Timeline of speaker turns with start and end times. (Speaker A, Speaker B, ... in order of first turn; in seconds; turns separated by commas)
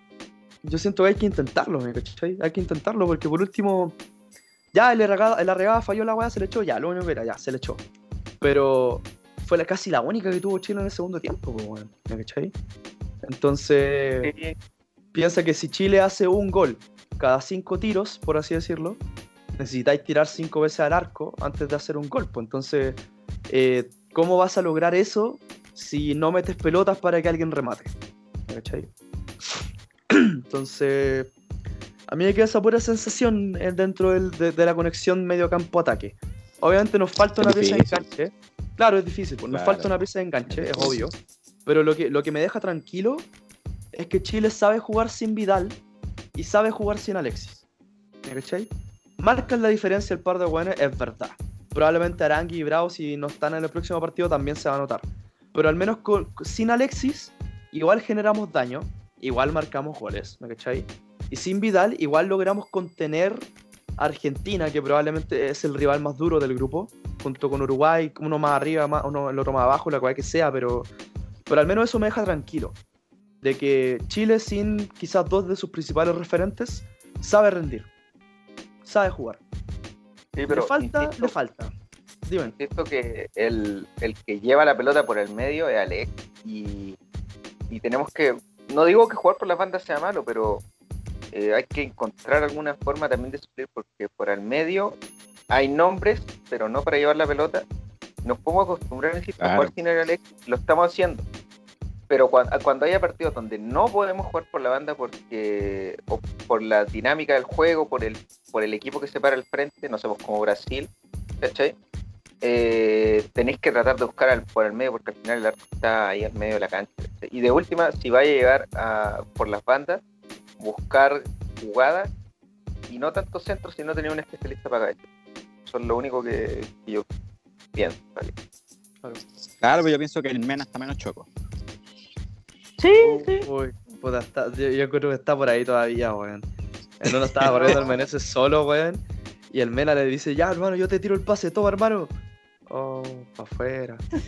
Speaker A: 0.6-4.0, Speaker A: 4.7-7.8, Speaker A: 8.4-12.5, Speaker A: 13.2-14.3, Speaker B: 14.2-14.6, Speaker A: 15.1-19.0, Speaker A: 19.6-27.9, Speaker A: 28.5-28.9, Speaker A: 30.1-31.3, Speaker A: 32.1-41.1, Speaker C: 37.4-38.1, Speaker C: 39.5-39.9, Speaker C: 40.5-41.1, Speaker A: 41.6-43.3, Speaker A: 43.9-45.8, Speaker A: 46.3-47.6, Speaker A: 48.2-63.5, Speaker A: 64.0-70.9, Speaker A: 71.5-72.8, Speaker A: 73.4-77.9, Speaker A: 78.8-79.4, Speaker B: 80.3-81.3, Speaker A: 80.5-81.7, Speaker A: 82.2-82.5, Speaker B: 82.4-87.0, Speaker B: 87.7-90.6, Speaker B: 91.3-95.0, Speaker B: 95.5-97.6, Speaker B: 98.2-101.2, Speaker C: 99.4-99.7, Speaker B: 102.1-110.9, Speaker B: 111.4-111.7, Speaker B: 112.4-120.0, Speaker B: 120.6-122.1, Speaker B: 122.9-125.0, Speaker B: 125.7-127.0, Speaker B: 127.7-128.3, Speaker C: 129.6-131.3, Speaker B: 132.8-133.5, Speaker A: 133.0-136.5, Speaker A: 137.0-142.1, Speaker C: 137.2-137.5, Speaker B: 137.5-137.9, Speaker A: 142.7-144.0